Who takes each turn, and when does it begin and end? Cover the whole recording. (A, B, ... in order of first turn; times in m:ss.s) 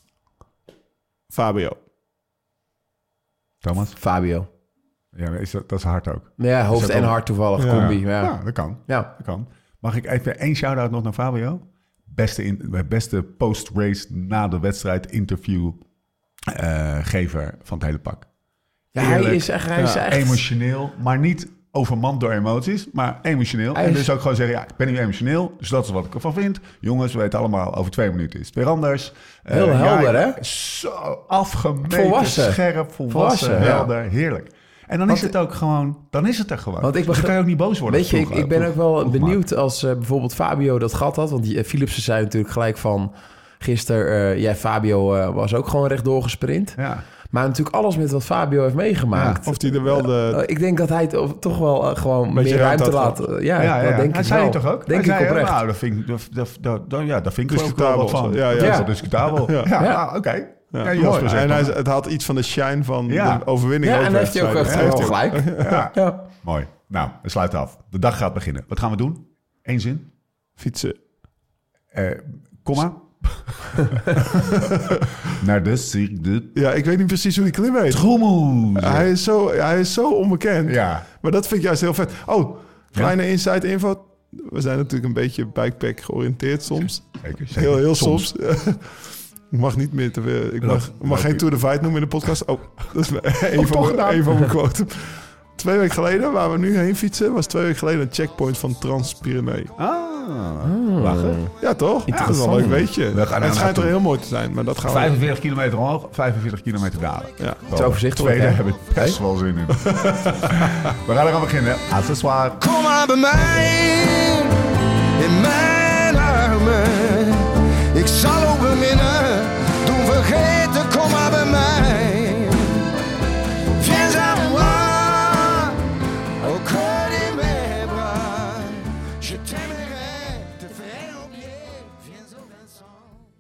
0:01.3-0:01.8 A
0:03.6-0:04.0 B
0:04.0-0:04.5 C
0:05.1-0:15.8 B
0:06.4-0:09.1 C
0:07.6-0:07.9 A
0:16.5-0:18.3 B
0:18.9-0:20.4 C
0:19.0-0:19.5 B
0:19.8-0:20.0 A
0:20.0-0:39.4 B
0:23.7-0:24.1 C
0:29.5-0:30.4 C
0:31.9-0:33.9 C
0:33.6-0:33.8 A
0:36.8-0:46.8 C
0:46.8-0:47.0 B
0:47.3-0:55.6 C
0:49.1-0:49.4 B
0:49.4-0:50.4 A
0:52.3-0:53.3 A
0:53.6-1:01.8 B
0:57.5-0:59.8 A
0:58.6-0:58.9 C
0:59.7-1:00.0 C
1:00.7-1:05.9 A
1:03.1-1:03.5 B
1:03.8-1:06.3 C
1:04.6-1:10.1 B
1:10.6-1:11.0 A
1:11.9-1:14.0 B
1:14.1-1:15.1 A
1:15.3-1:16.6 B
1:16.6-1:18.0 A
1:17.9-1:19.1 B
1:18.8-1:39.7 A
1:20.7-1:21.1 B
1:27.2-1:28.3 B
1:30.6-1:31.4 B
1:33.5-1:34.4 B
1:39.8-1:41.4 B
1:40.6-1:41.5 C
1:41.6-1:45.2 A
1:42.1-1:44.0 B
1:44.8-1:52.9 B
1:47.7-1:49.2 C
1:49.8-1:50.6 A
1:53.3-1:54.5 D
1:55.2-2:02.7 D
2:03.8-2:05.7 D
2:06.5-2:08.3 D